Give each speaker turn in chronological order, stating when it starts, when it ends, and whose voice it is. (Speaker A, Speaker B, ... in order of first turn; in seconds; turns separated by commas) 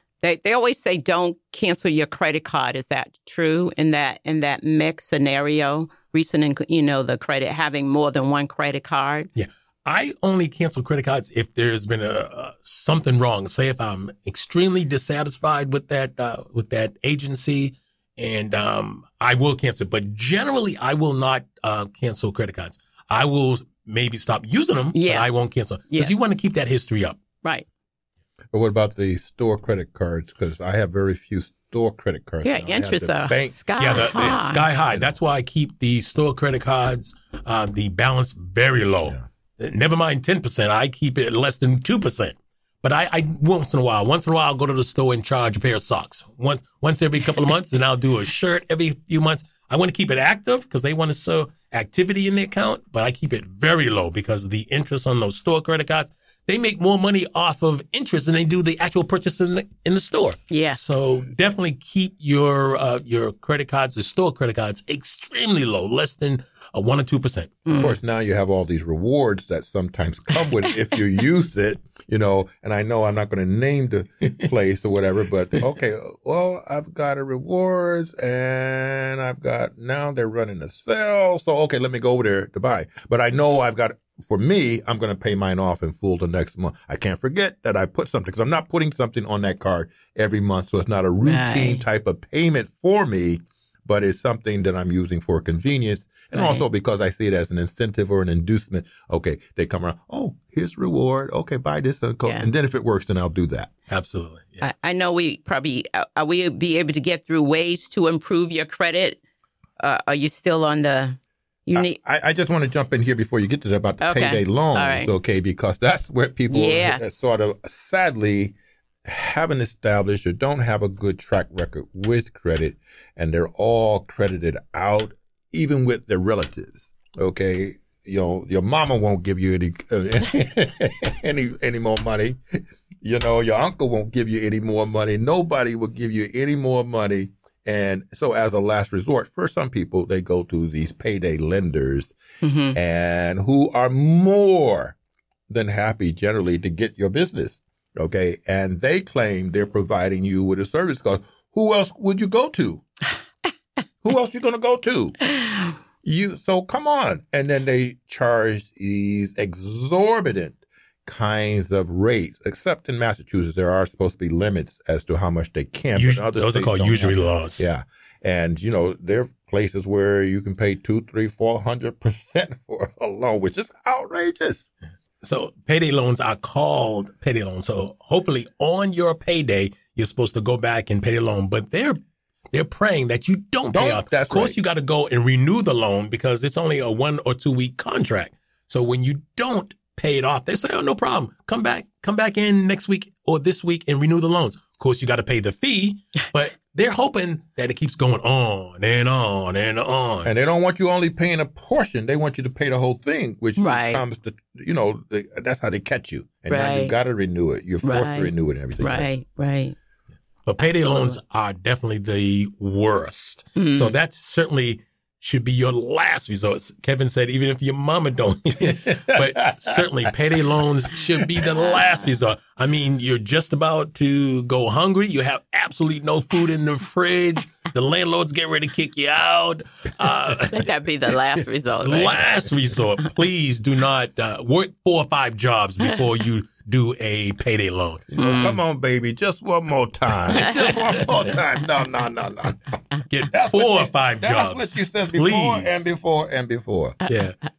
Speaker A: 0.2-9.3, Speaker B: 9.3-27.2, Speaker A: 24.9-25.3, Speaker C: 28.5-34.3, Speaker A: 32.4-34.6, Speaker B: 33.8-67.5, Speaker A: 60.5-60.8, Speaker A: 67.7-68.0, Speaker C: 67.8-103.7, Speaker A: 91.2-91.8, Speaker A: 96.3-96.6, Speaker A: 102.2-102.5, Speaker B: 103.9-104.7, Speaker A: 104.6-109.2, Speaker A: 109.8-112.0, Speaker C: 111.7-142.2, Speaker A: 114.0-115.1, Speaker A: 116.5-117.2, Speaker A: 142.4-142.8, Speaker C: 142.7-144.9, Speaker C: 145.5-152.8, Speaker C: 154.0-155.2, Speaker A: 155.4-155.7, Speaker C: 156.0-174.7, Speaker B: 165.9-167.6, Speaker B: 175.2-182.0, Speaker B: 182.5-200.3, Speaker C: 183.7-184.6, Speaker C: 200.2-209.1, Speaker A: 203.6-204.0, Speaker A: 206.5-206.9, Speaker A: 207.8-209.8, Speaker B: 210.4-230.7, Speaker A: 210.7-211.2, Speaker A: 213.6-213.9, Speaker C: 218.6-219.8, Speaker A: 230.4-232.2, Speaker B: 231.8-238.5, Speaker C: 238.2-242.6, Speaker A: 238.2-238.5, Speaker A: 240.3-240.7, Speaker B: 243.1-245.8, Speaker C: 243.3-247.0, Speaker B: 247.1-247.3